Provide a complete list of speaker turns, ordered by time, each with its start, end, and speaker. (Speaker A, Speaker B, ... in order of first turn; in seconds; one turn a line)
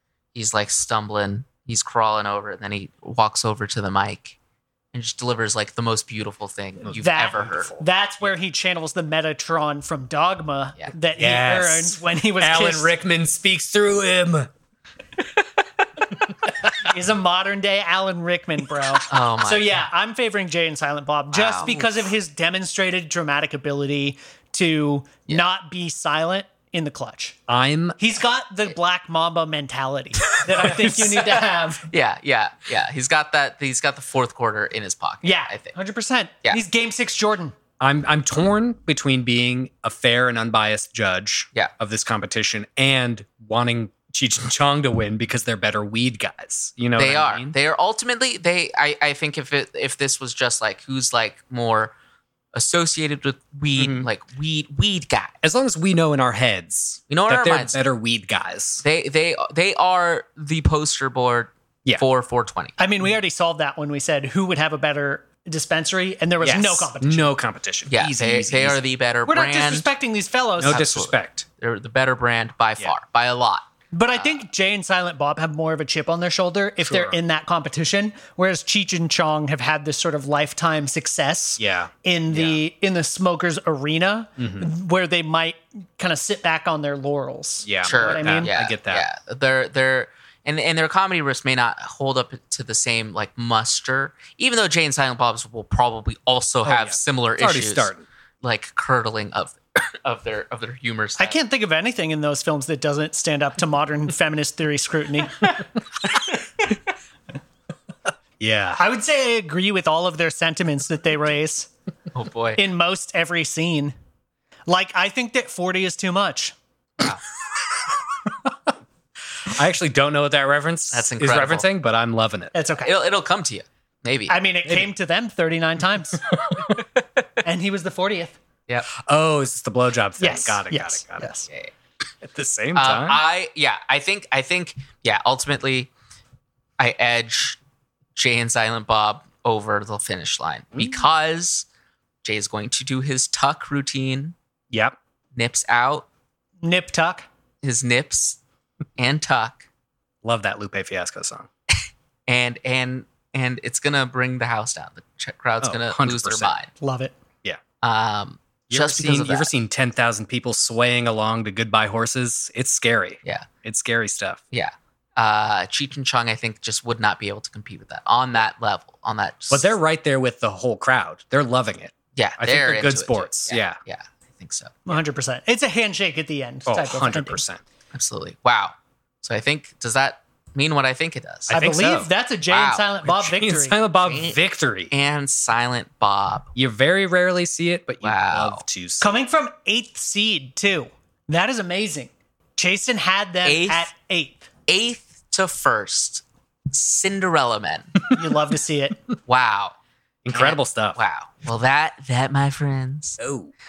Speaker A: 0.3-4.4
Speaker A: 4.9-7.7
Speaker B: 6.8-7.8
Speaker C: 7.0-12.9
Speaker B: 11.2-14.5
Speaker C: 16.8-27.4
Speaker A: 19.1-19.9
Speaker A: 21.3-21.7
Speaker B: 27.5-28.0
Speaker C: 28.0-31.9
Speaker B: 30.6-31.1
Speaker A: 31.0-35.7
Speaker C: 35.2-37.5
Speaker B: 37.8-47.5
Speaker A: 47.0-51.9
Speaker A: 52.5-55.4
Speaker B: 53.8-54.1
Speaker B: 55.4-58.8
Speaker A: 57.1-57.8
Speaker A: 58.8-62.7
Speaker C: 62.8-67.3
Speaker B: 66.4-68.8
Speaker A: 67.9-69.9
Speaker C: 69.3-70.8
Speaker B: 70.6-71.5
Speaker A: 70.7-74.4
Speaker C: 73.9-88.5
Speaker B: 76.8-77.2
Speaker B: 81.6-81.9
Speaker A: 82.3-82.6
Speaker B: 84.4-84.7
Speaker B: 87.6-89.0
Speaker A: 87.8-101.4
Speaker B: 96.7-98.1
Speaker C: 101.2-105.5
Speaker B: 108.4-108.8
Speaker C: 108.8-111.7
Speaker A: 112.2-112.6
Speaker C: 112.6-113.9
Speaker C: 114.7-116.5
Speaker B: 119.4-122.6
Speaker A: 120.9-121.7
Speaker C: 122.5-123.0
Speaker A: 122.8-124.4
Speaker C: 124.3-126.2
Speaker B: 124.7-124.9
Speaker C: 127.4-128.4
Speaker B: 128.9-131.3
Speaker C: 130.2-131.5
Speaker B: 132.2-133.2
Speaker A: 132.8-135.9
Speaker A: 136.8-137.6
Speaker A: 138.2-141.7
Speaker B: 140.7-141.0
Speaker A: 142.2-144.3
Speaker A: 145.3-146.1
Speaker C: 146.6-147.3
Speaker A: 147.6-148.4
Speaker A: 149.0-149.6
Speaker B: 150.2-151.5
Speaker A: 152.3-156.7
Speaker B: 155.6-156.5
Speaker C: 156.8-157.1
Speaker A: 157.8-159.5
Speaker B: 158.7-164.4
Speaker A: 164.5-169.8
Speaker B: 169.5-173.8
Speaker A: 172.2-175.0
Speaker C: 174.9-177.4
Speaker B: 176.7-177.6
Speaker A: 177.9-181.5
Speaker B: 181.5-182.1
Speaker C: 181.5-183.8
Speaker A: 182.5-182.8
Speaker B: 183.0-184.9
Speaker A: 184.0-184.4
Speaker A: 184.9-186.5
Speaker B: 186.6-189.2
Speaker A: 188.0-188.6
Speaker C: 189.0-194.5
Speaker A: 193.4-193.9
Speaker A: 194.7-197.9
Speaker C: 198.1-199.0
Speaker A: 199.3-199.8
Speaker B: 200.2-201.0
Speaker A: 200.3-203.2
Speaker B: 203.2-203.5